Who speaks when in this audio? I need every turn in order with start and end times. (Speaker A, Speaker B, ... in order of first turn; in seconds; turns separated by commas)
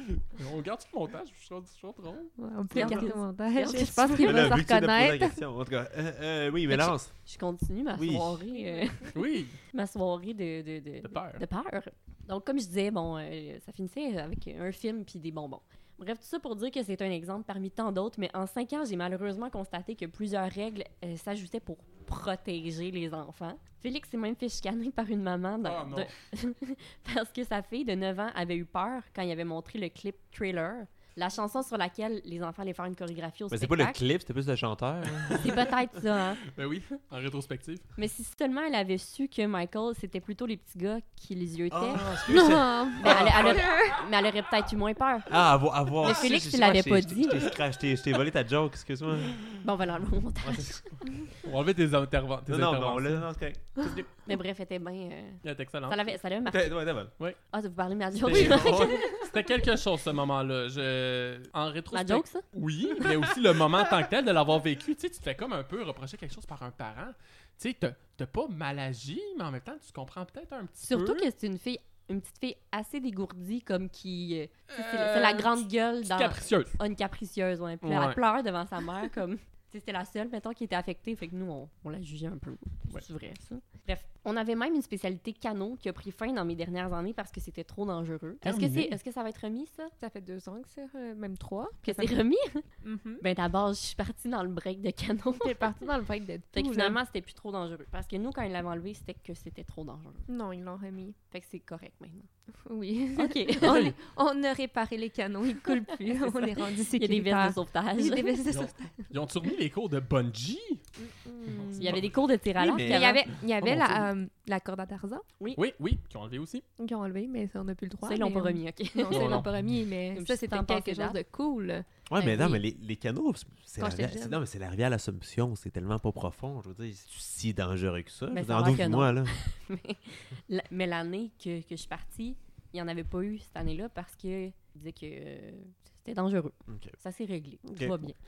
Speaker A: 0.1-3.1, Speaker B: 2.4-5.4, Speaker C: 2.7-4.5, Speaker D: 4.2-7.1, Speaker C: 6.7-34.0, Speaker D: 8.0-8.4, Speaker A: 9.1-9.6, Speaker A: 11.0-11.4, Speaker A: 25.6-26.1, Speaker D: 33.5-35.5, Speaker A: 35.2-35.7, Speaker C: 35.3-36.4, Speaker A: 36.5-37.9, Speaker C: 38.0-42.2, Speaker D: 41.7-43.7, Speaker B: 42.3-44.0, Speaker C: 43.0-45.4, Speaker D: 45.3-49.4, Speaker C: 46.0-47.5, Speaker C: 49.6-51.0, Speaker D: 50.4-50.8, Speaker A: 51.3-53.3, Speaker D: 52.5-53.8, Speaker C: 53.8-56.8, Speaker A: 55.4-56.0, Speaker D: 56.5-57.1, Speaker C: 57.5-59.3, Speaker A: 58.2-71.3, Speaker D: 58.2-59.0, Speaker C: 61.9-62.4, Speaker C: 70.8-89.9, Speaker A: 74.7-76.7, Speaker A: 77.8-78.2, Speaker A: 88.4-89.0, Speaker B: 90.0-92.2, Speaker C: 91.8-92.6, Speaker B: 92.8-93.2, Speaker C: 93.2-95.7, Speaker B: 95.3-97.0, Speaker C: 96.5-100.2, Speaker B: 100.3-101.2, Speaker C: 101.3-102.3, Speaker B: 102.7-109.1, Speaker C: 103.2-103.9, Speaker C: 105.6-108.4, Speaker A: 108.5-110.8, Speaker B: 111.0-112.0, Speaker A: 111.6-112.0, Speaker C: 111.7-113.2, Speaker B: 112.6-115.2, Speaker D: 112.7-113.0, Speaker A: 113.6-114.0, Speaker A: 115.5-116.6, Speaker B: 116.8-121.8, Speaker C: 118.0-119.5, Speaker A: 119.1-119.4, Speaker C: 120.1-121.2, Speaker D: 122.1-129.3, Speaker C: 122.2-122.6, Speaker B: 123.8-124.4, Speaker C: 128.3-138.2, Speaker D: 136.7-136.9, Speaker D: 137.7-137.9